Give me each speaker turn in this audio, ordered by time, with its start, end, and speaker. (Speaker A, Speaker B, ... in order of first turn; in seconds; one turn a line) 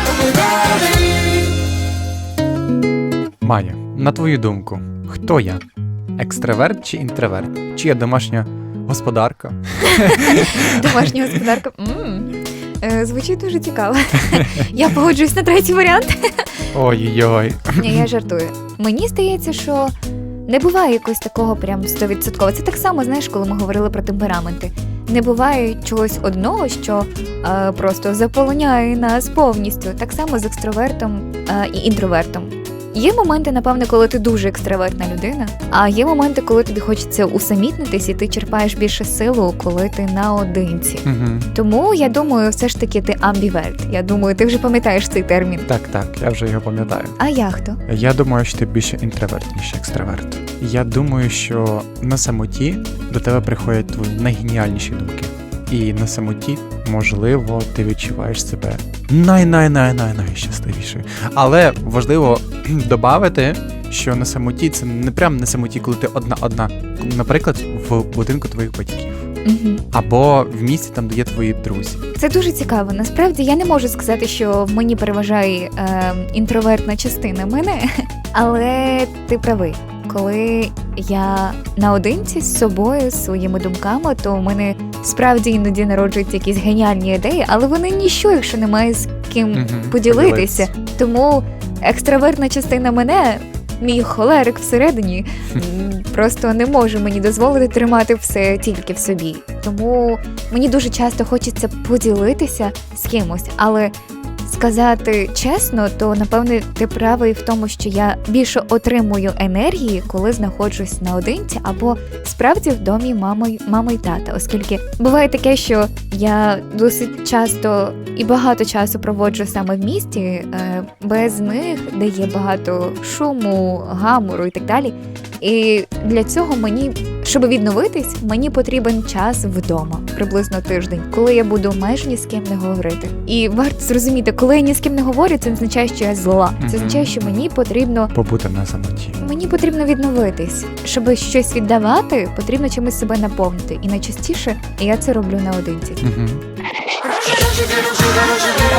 Speaker A: 3.4-5.6
Speaker A: 6.2-11.4
Speaker B: 9.9-16.5
Speaker A: 14.3-14.6
Speaker A: 16.7-18.0
Speaker B: 17.8-19.9
Speaker B: 20.4-45.7
Speaker A: 41.0-41.5
Speaker A: 45.7-47.2
Speaker B: 47.2-47.8
Speaker A: 47.9-69.3
Speaker B: 69.4-69.8
Speaker A: 69.9-72.0
Speaker B: 72.2-103.9
Speaker A: 89.5-90.7
Speaker B: 104.4-138.1
Speaker A: 136.6-137.2
Speaker A: 138.1-139.2
Speaker B: 139.2-146.0
Speaker A: 146.0-146.4